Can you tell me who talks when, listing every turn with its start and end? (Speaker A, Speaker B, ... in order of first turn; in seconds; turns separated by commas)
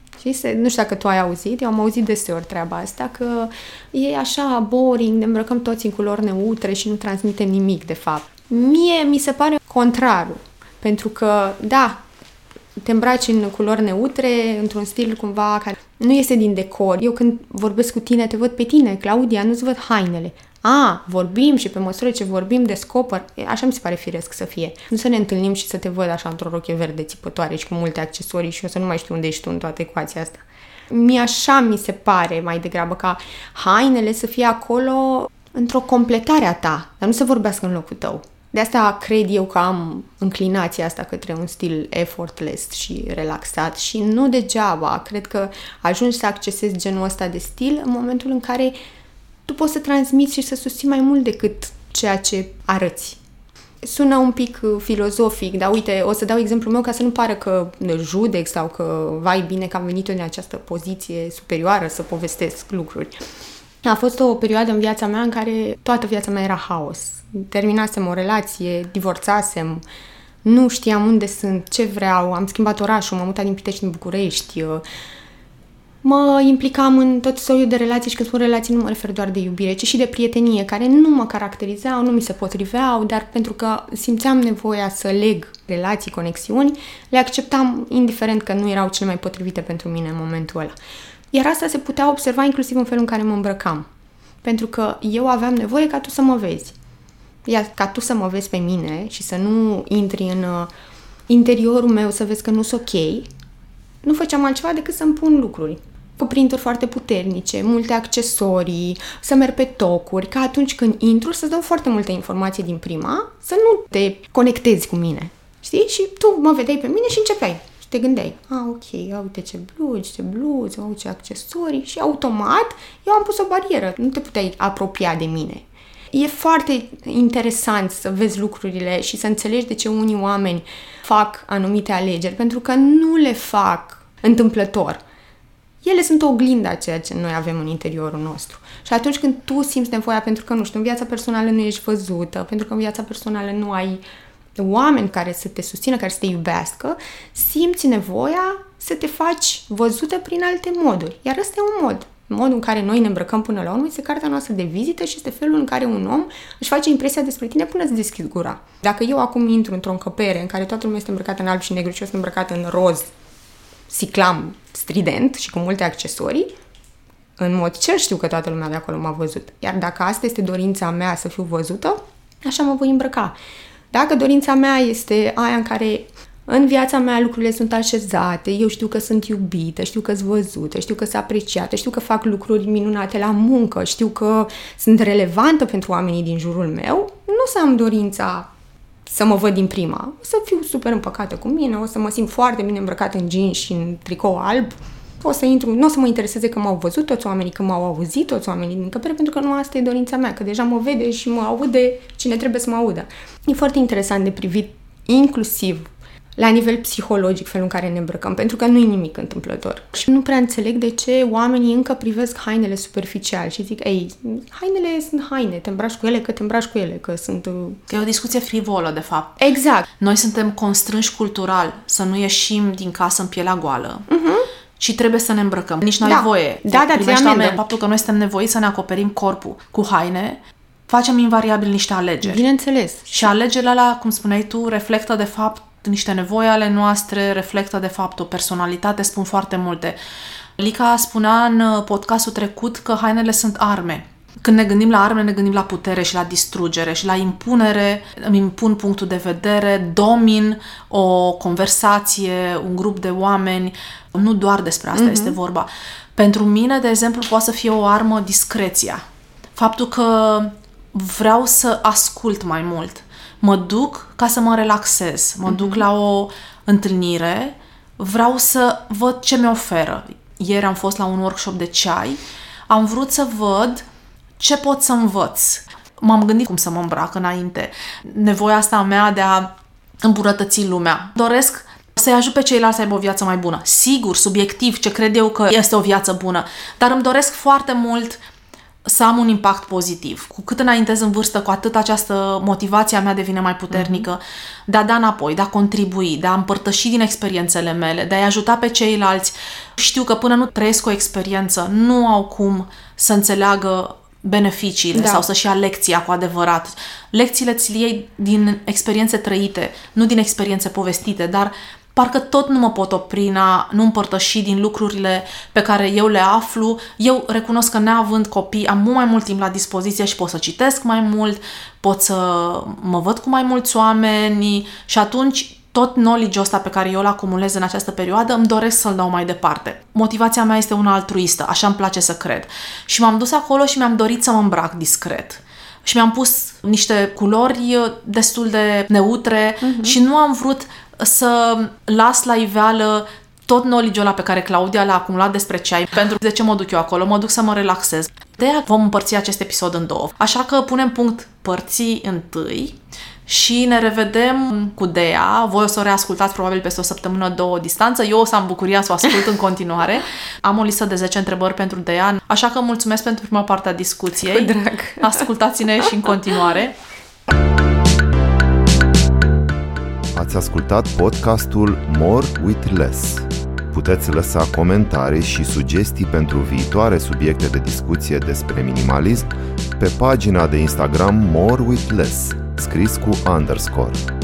Speaker A: 0.2-12.0, Speaker A: 12.8-48.7, Speaker A: 49.5-53.2, Speaker A: 53.8-63.1, Speaker A: 63.8-69.8, Speaker A: 70.4-74.8, Speaker A: 76.0-90.7, Speaker A: 91.3-93.9, Speaker A: 94.4-96.7, Speaker A: 97.5-100.7, Speaker A: 101.3-103.3, Speaker A: 104.0-135.0, Speaker A: 135.8-144.0, Speaker A: 144.6-163.1, Speaker A: 163.9-166.5, Speaker A: 167.4-173.3, Speaker A: 173.9-188.5, Speaker A: 189.1-217.8, Speaker B: 217.9-219.4, Speaker A: 219.4-219.9, Speaker B: 220.0-224.1, Speaker A: 224.1-224.5, Speaker B: 224.8-232.4, Speaker A: 226.0-227.7, Speaker A: 232.2-233.3, Speaker B: 233.1-239.9, Speaker B: 240.6-259.0, Speaker A: 254.9-255.3, Speaker B: 259.6-273.8, Speaker A: 265.5-265.8, Speaker B: 274.4-288.2, Speaker B: 288.8-366.8, Speaker A: 293.7-294.1, Speaker A: 304.9-305.2, Speaker A: 364.3-365.2, Speaker C: 370.1-384.1